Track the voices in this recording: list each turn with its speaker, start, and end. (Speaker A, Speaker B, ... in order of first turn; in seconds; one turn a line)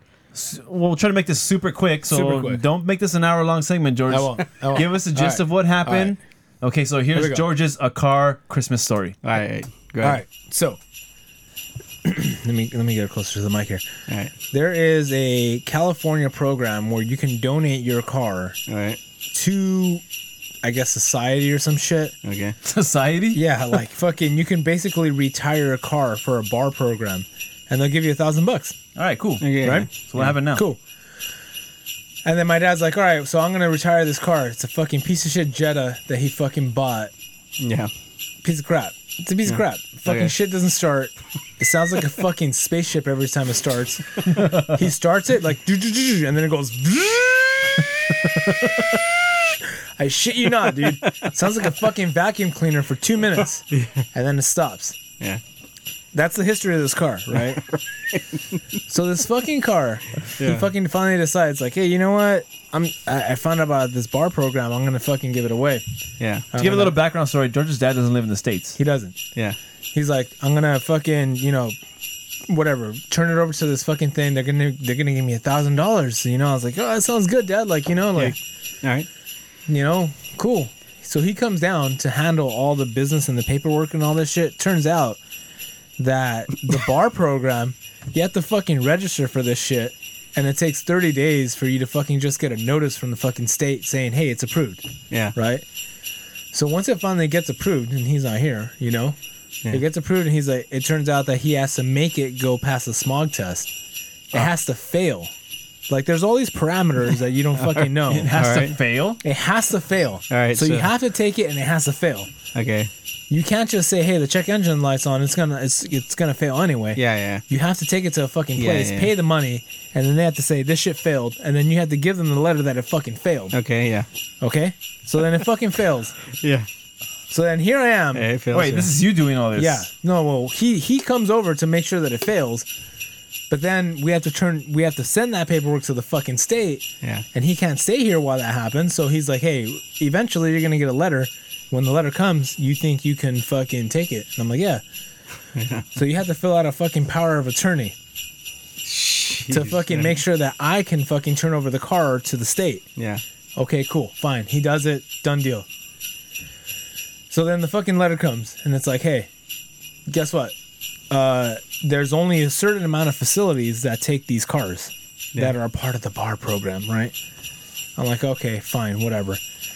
Speaker A: 0.3-9.2
Speaker B: 2.1-2.6
Speaker B: 4.1-6.2
Speaker B: 7.1-7.5
Speaker C: 9.2-10.2
Speaker B: 10.0-10.8
Speaker B: 12.0-13.8
Speaker B: 14.5-18.6
Speaker C: 18.7-19.0
Speaker B: 19.3-20.0
Speaker B: 20.6-22.1
Speaker C: 22.2-22.6
Speaker A: 22.6-23.4
Speaker B: 23.3-28.8
Speaker A: 28.9-30.6
Speaker C: 29.4-30.3
Speaker B: 29.6-30.8
Speaker B: 32.2-37.1
Speaker C: 37.6-37.9
Speaker B: 38.4-47.9
Speaker C: 39.5-40.3
Speaker B: 50.0-55.0
Speaker C: 50.9-51.2
Speaker C: 53.7-54.0
Speaker B: 56.1-57.7
Speaker B: 58.9-65.8
Speaker C: 60.4-60.7
Speaker C: 66.2-66.4
Speaker B: 66.5-67.0
Speaker A: 66.5-68.8
Speaker B: 68.8-69.2
Speaker B: 69.9-71.8
Speaker B: 72.5-78.3
Speaker C: 78.2-79.1
Speaker B: 79.7-85.2
Speaker B: 86.0-94.8
Speaker B: 95.3-95.6
Speaker B: 96.5-99.2
Speaker B: 99.7-103.7
Speaker B: 104.3-105.3
Speaker B: 105.9-108.4
Speaker C: 107.6-108.8
Speaker A: 108.1-109.2
Speaker B: 109.2-112.3
Speaker C: 110.3-110.9
Speaker C: 112.5-112.9
Speaker B: 113.3-123.5
Speaker C: 116.9-117.4
Speaker C: 118.6-119.1
Speaker C: 123.5-124.1
Speaker B: 124.4-126.2
Speaker C: 126.4-126.7
Speaker B: 127.3-128.2
Speaker C: 128.1-128.9
Speaker A: 128.5-129.9
Speaker B: 129.5-132.7
Speaker B: 133.5-144.8
Speaker C: 145.5-145.8
Speaker B: 145.9-147.9
Speaker C: 148.8-150.2
Speaker B: 149.5-152.9
Speaker B: 153.6-155.7
Speaker B: 157.3-159.3
Speaker B: 160.1-160.5
Speaker B: 161.1-167.1
Speaker B: 168.0-169.4